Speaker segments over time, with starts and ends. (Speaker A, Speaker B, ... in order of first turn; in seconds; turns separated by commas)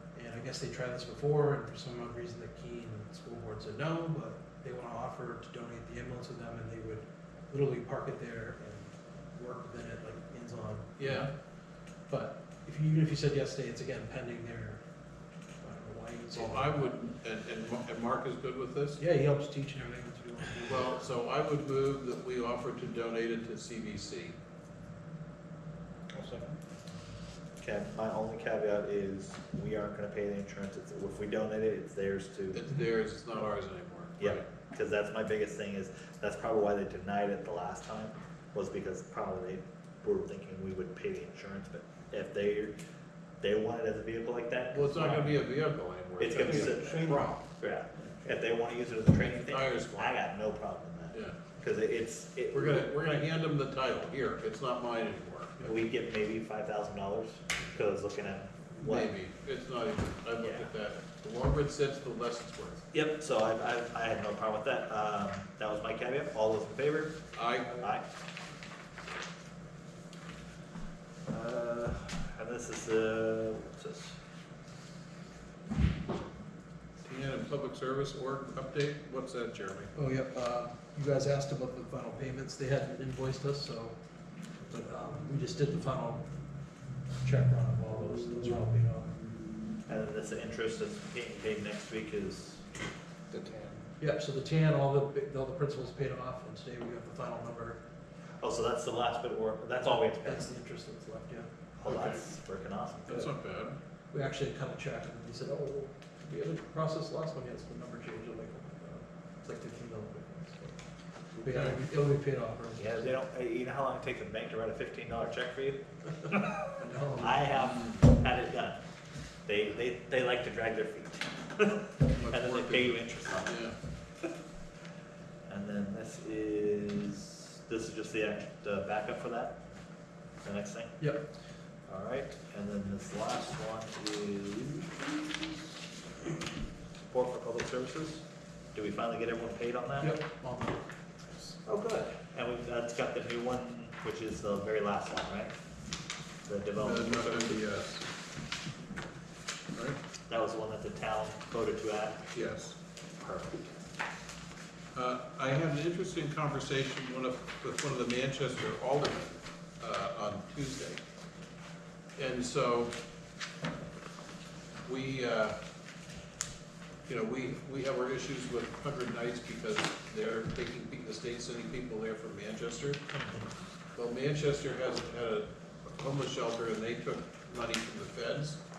Speaker A: 0.1-11.3, Speaker B: 11.0-11.3, Speaker A: 12.1-14.8, Speaker A: 15.6-16.9, Speaker B: 16.3-19.0, Speaker A: 19.0-21.0, Speaker B: 20.7-24.4, Speaker B: 26.1-26.6, Speaker C: 27.6-32.6, Speaker B: 32.5-34.5, Speaker C: 34.2-42.7, Speaker C: 43.4-45.4, Speaker B: 44.7-47.4, Speaker C: 46.2-52.9, Speaker B: 49.2-50.2, Speaker B: 52.5-55.7, Speaker C: 55.6-59.1, Speaker B: 58.8-62.9, Speaker C: 62.9-67.2, Speaker B: 67.3-67.9, Speaker C: 67.8-68.0, Speaker C: 71.3-74.2, Speaker B: 77.0-79.9, Speaker A: 80.0-84.0, Speaker A: 84.7-86.2, Speaker A: 87.2-89.2, Speaker C: 89.9-92.6, Speaker B: 93.3-93.8, Speaker A: 94.0-97.8, Speaker C: 98.4-100.5, Speaker A: 99.8-101.5, Speaker C: 101.8-103.3, Speaker B: 101.9-102.2, Speaker B: 103.1-103.8, Speaker A: 104.1-110.8, Speaker B: 111.4-111.8, Speaker A: 111.4-113.1, Speaker C: 112.8-118.8, Speaker A: 116.8-117.6, Speaker B: 117.7-118.1, Speaker C: 119.5-123.6, Speaker B: 122.1-123.8, Speaker C: 125.5-129.6, Speaker C: 130.4-131.0, Speaker C: 131.9-135.5, Speaker C: 137.1-140.2, Speaker A: 140.0-140.8, Speaker C: 141.7-145.6, Speaker C: 146.5-147.6, Speaker B: 146.8-148.1, Speaker C: 150.3-152.3, Speaker B: 152.3-152.8, Speaker C: 153.2-153.7, Speaker B: 154.9-161.0, Speaker B: 162.2-162.9, Speaker B: 164.8-165.6, Speaker B: 167.1-173.1, Speaker B: 174.0-178.6